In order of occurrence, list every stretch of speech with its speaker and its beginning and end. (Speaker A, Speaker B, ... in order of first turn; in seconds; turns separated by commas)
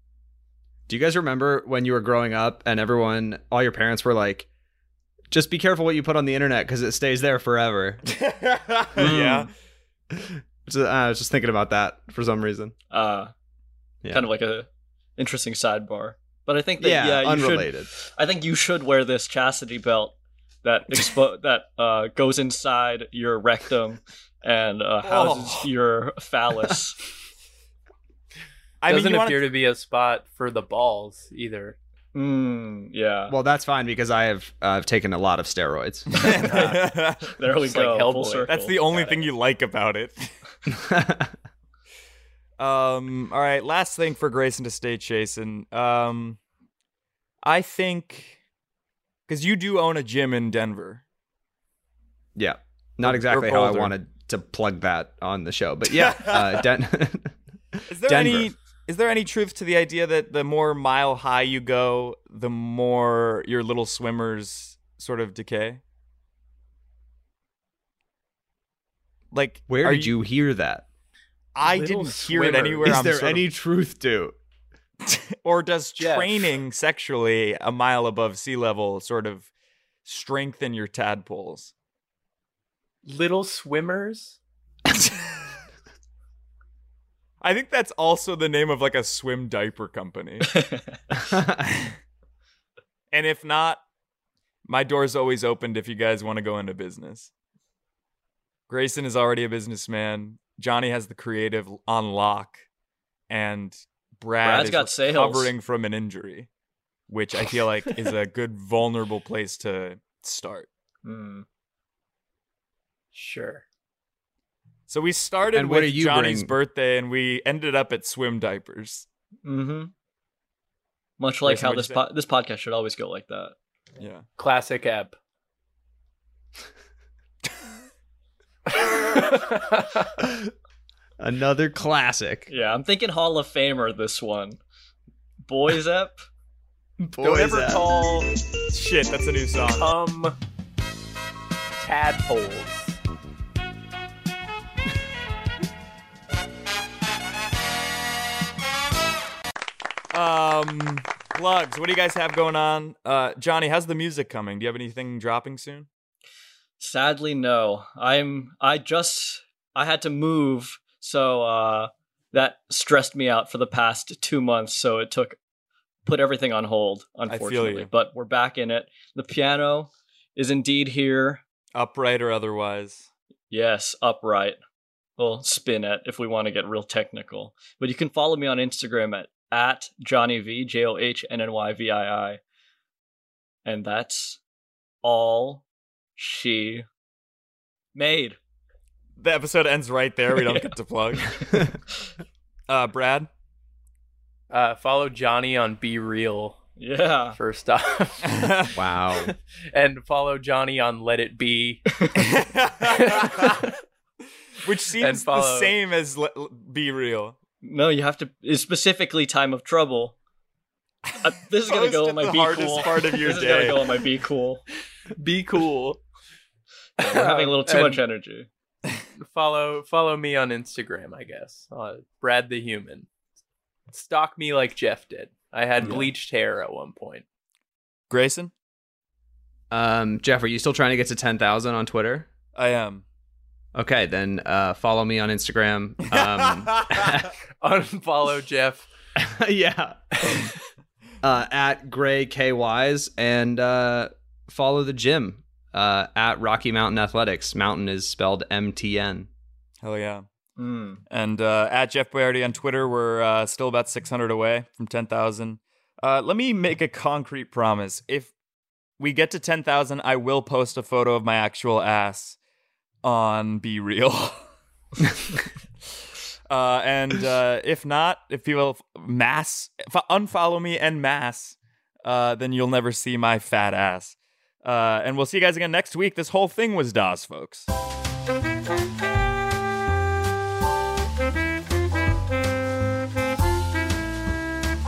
Speaker A: 0.9-4.5, Speaker A: 5.3-8.0, Speaker B: 8.2-9.5, Speaker C: 9.0-9.5, Speaker A: 9.0-9.3, Speaker A: 10.1-12.8, Speaker C: 12.9-13.3, Speaker C: 14.1-27.0, Speaker A: 16.8-17.9, Speaker B: 25.0-25.7, Speaker B: 28.8-29.4, Speaker D: 28.9-31.8, Speaker C: 32.1-33.4, Speaker A: 33.3-36.1, Speaker B: 36.1-37.4, Speaker C: 36.2-39.2, Speaker D: 37.6-38.5, Speaker B: 38.5-40.4, Speaker A: 40.7-41.3, Speaker B: 42.6-46.4, Speaker B: 47.4-48.4, Speaker B: 49.3-51.0, Speaker A: 52.4-57.4, Speaker B: 53.0-54.0, Speaker B: 55.9-56.7, Speaker B: 57.9-65.8, Speaker A: 58.0-58.5, Speaker B: 69.3-70.1, Speaker A: 69.7-70.8, Speaker B: 71.6-73.5, Speaker D: 71.6-73.0, Speaker A: 72.8-74.4, Speaker B: 75.0-79.5, Speaker D: 76.0-76.5, Speaker B: 80.0-81.7, Speaker D: 83.0-84.4, Speaker B: 87.4-90.6, Speaker A: 91.2-91.6, Speaker B: 93.1-93.8, Speaker B: 94.7-97.3, Speaker B: 98.7-102.6, Speaker B: 103.3-106.5, Speaker C: 104.4-105.5, Speaker B: 107.1-110.7, Speaker C: 111.0-111.5, Speaker D: 113.1-113.6, Speaker B: 114.9-119.1, Speaker A: 115.5-116.5, Speaker C: 119.4-119.9, Speaker C: 121.2-123.5, Speaker B: 121.5-122.0, Speaker B: 124.0-124.2, Speaker D: 124.4-125.2, Speaker D: 128.8-130.1, Speaker A: 131.2-132.5, Speaker C: 132.5-134.6, Speaker C: 135.5-136.2, Speaker A: 137.0-137.9, Speaker D: 137.2-138.3, Speaker B: 138.7-139.9, Speaker D: 139.8-140.4, Speaker D: 141.8-143.0, Speaker B: 150.1-155.9, Speaker C: 156.8-165.4, Speaker C: 166.1-171.4, Speaker B: 167.3-167.9, Speaker B: 171.8-173.1, Speaker C: 173.5-174.6, Speaker C: 175.2-182.4, Speaker C: 183.7-184.4, Speaker C: 185.0-185.6, Speaker C: 186.2-186.8, Speaker C: 187.9-188.4, Speaker B: 189.2-191.7, Speaker B: 192.7-193.3, Speaker D: 194.5-196.6, Speaker C: 196.8-197.4, Speaker D: 197.4-198.4, Speaker B: 198.3-198.8, Speaker A: 198.8-199.3, Speaker D: 199.2-201.8, Speaker B: 202.2-203.7, Speaker D: 203.0-203.6, Speaker B: 204.6-207.4, Speaker D: 205.0-205.7, Speaker C: 207.6-210.2, Speaker B: 211.1-213.9, Speaker C: 211.2-214.6, Speaker D: 215.2-216.0, Speaker D: 217.0-218.0, Speaker C: 217.0-218.5, Speaker D: 219.2-223.1, Speaker D: 223.9-227.2, Speaker B: 225.8-226.1, Speaker B: 228.1-228.5, Speaker A: 229.7-232.3, Speaker B: 232.6-233.1, Speaker A: 233.8-237.3, Speaker B: 236.2-237.2, Speaker D: 237.6-238.9, Speaker A: 239.2-240.0, Speaker A: 241.2-249.3, Speaker B: 249.8-250.3, Speaker C: 250.6-251.0, Speaker B: 251.1-258.3, Speaker B: 259.0-262.4, Speaker B: 263.0-264.5, Speaker B: 266.5-277.7